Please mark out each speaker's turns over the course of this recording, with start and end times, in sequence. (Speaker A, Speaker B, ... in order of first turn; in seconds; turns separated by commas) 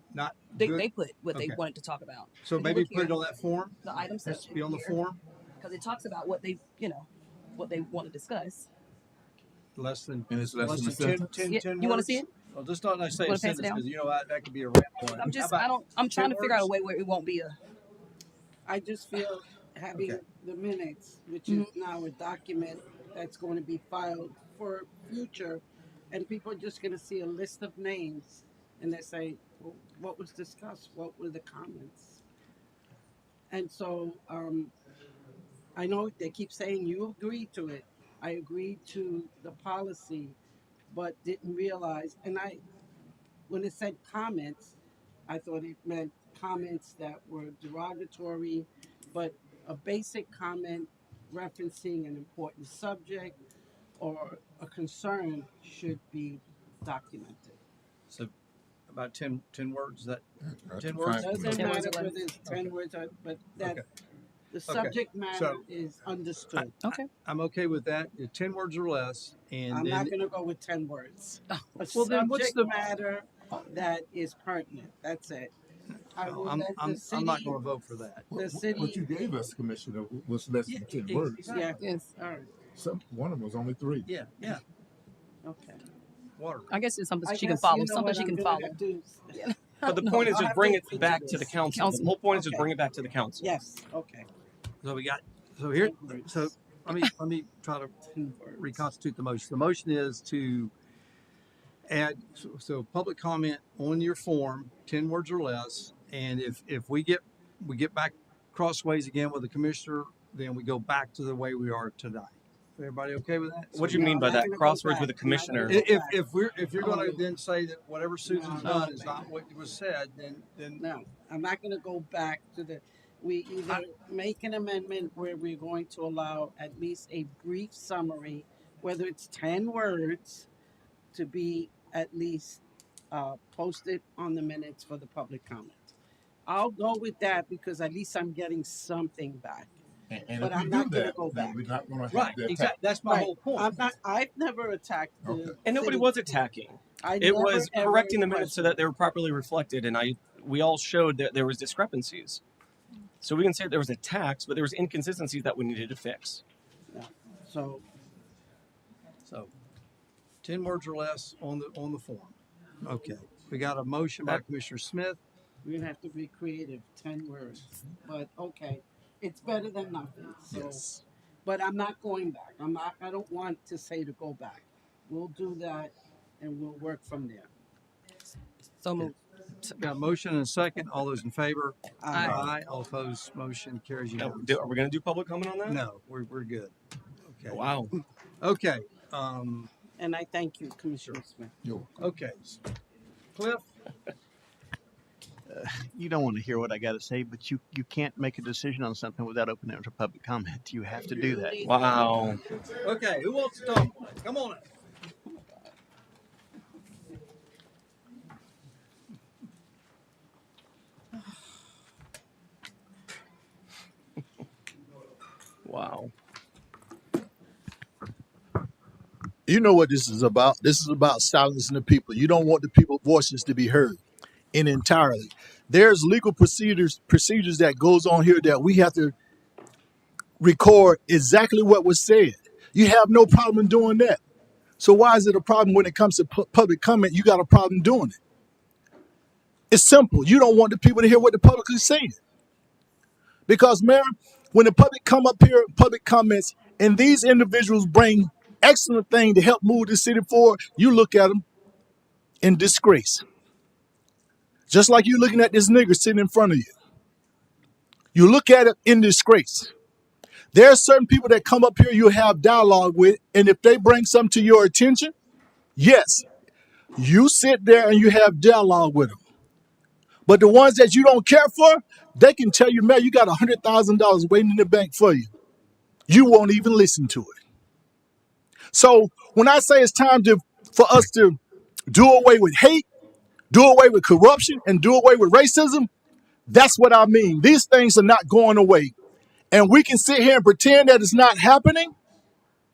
Speaker A: 0.1-1.6, Speaker B: 0.6-3.2, Speaker A: 2.4-5.2, Speaker B: 3.8-5.0, Speaker B: 5.6-8.7, Speaker A: 9.8-16.7, Speaker C: 10.3-11.4, Speaker B: 11.4-12.3, Speaker B: 13.2-13.8, Speaker B: 15.1-17.6, Speaker D: 18.6-32.2, Speaker A: 19.9-20.2, Speaker D: 33.5-34.7, Speaker D: 35.8-40.4, Speaker D: 40.9-42.6, Speaker D: 43.5-44.7, Speaker D: 45.3-53.4, Speaker D: 54.0-57.6, Speaker A: 58.9-61.9, Speaker C: 60.4-61.6, Speaker D: 61.2-63.8, Speaker B: 61.5-62.2, Speaker A: 63.6-63.9, Speaker D: 64.5-66.8, Speaker A: 64.7-65.6, Speaker A: 66.5-70.1, Speaker D: 69.7-75.5, Speaker A: 71.9-72.8, Speaker A: 75.9-78.3, Speaker D: 76.1-77.6, Speaker C: 78.3-81.6, Speaker D: 78.3-79.2, Speaker A: 80.7-81.8, Speaker D: 81.5-82.5, Speaker B: 81.8-82.0, Speaker C: 82.7-84.1, Speaker A: 84.0-84.6, Speaker D: 85.4-85.8, Speaker A: 86.4-86.7, Speaker B: 86.7-88.8, Speaker D: 87.2-92.7, Speaker B: 89.3-90.2, Speaker E: 89.8-93.5, Speaker B: 91.7-92.1, Speaker D: 93.4-94.3, Speaker A: 94.8-98.0, Speaker D: 95.8-96.5, Speaker D: 98.0-98.9, Speaker A: 98.5-100.7, Speaker A: 101.8-114.2, Speaker E: 113.7-115.8, Speaker D: 113.9-117.3, Speaker A: 115.6-120.8, Speaker D: 118.2-119.3, Speaker D: 120.8-130.5, Speaker D: 131.1-135.9, Speaker D: 136.4-139.7, Speaker C: 140.1-142.8, Speaker D: 140.3-141.7, Speaker A: 142.1-143.8, Speaker D: 143.0-146.3, Speaker C: 145.2-145.6, Speaker E: 145.6-152.4, Speaker D: 147.0-148.9, Speaker E: 153.2-156.4, Speaker D: 156.9-157.8, Speaker A: 159.2-159.5, Speaker A: 160.4-165.2, Speaker D: 165.6-177.5, Speaker B: 178.8-179.8, Speaker A: 179.8-184.7, Speaker D: 182.0-182.5, Speaker C: 182.2-182.5, Speaker E: 184.2-185.8, Speaker A: 185.6-187.7, Speaker E: 187.5-187.9, Speaker A: 188.4-189.7, Speaker D: 190.0-191.5, Speaker C: 191.6-191.9, Speaker A: 192.0-192.6, Speaker A: 193.3-193.7, Speaker F: 195.4-202.0, Speaker D: 201.0-202.4, Speaker E: 201.6-202.4, Speaker A: 202.7-204.7, Speaker E: 215.6-216.1, Speaker G: 219.5-224.0, Speaker G: 224.5-229.1, Speaker G: 230.4-234.2, Speaker G: 234.8-238.2, Speaker G: 239.7-242.2, Speaker G: 243.5-251.4, Speaker G: 252.4-253.2, Speaker G: 254.7-256.7, Speaker G: 258.1-259.7, Speaker G: 260.5-265.1, Speaker G: 265.8-266.2, Speaker G: 267.0-269.2, Speaker G: 270.2-275.3, Speaker G: 276.1-277.4, Speaker G: 278.7-281.4, Speaker G: 281.9-282.8, Speaker G: 283.5-285.9, Speaker G: 286.5-288.9, Speaker G: 289.5-291.9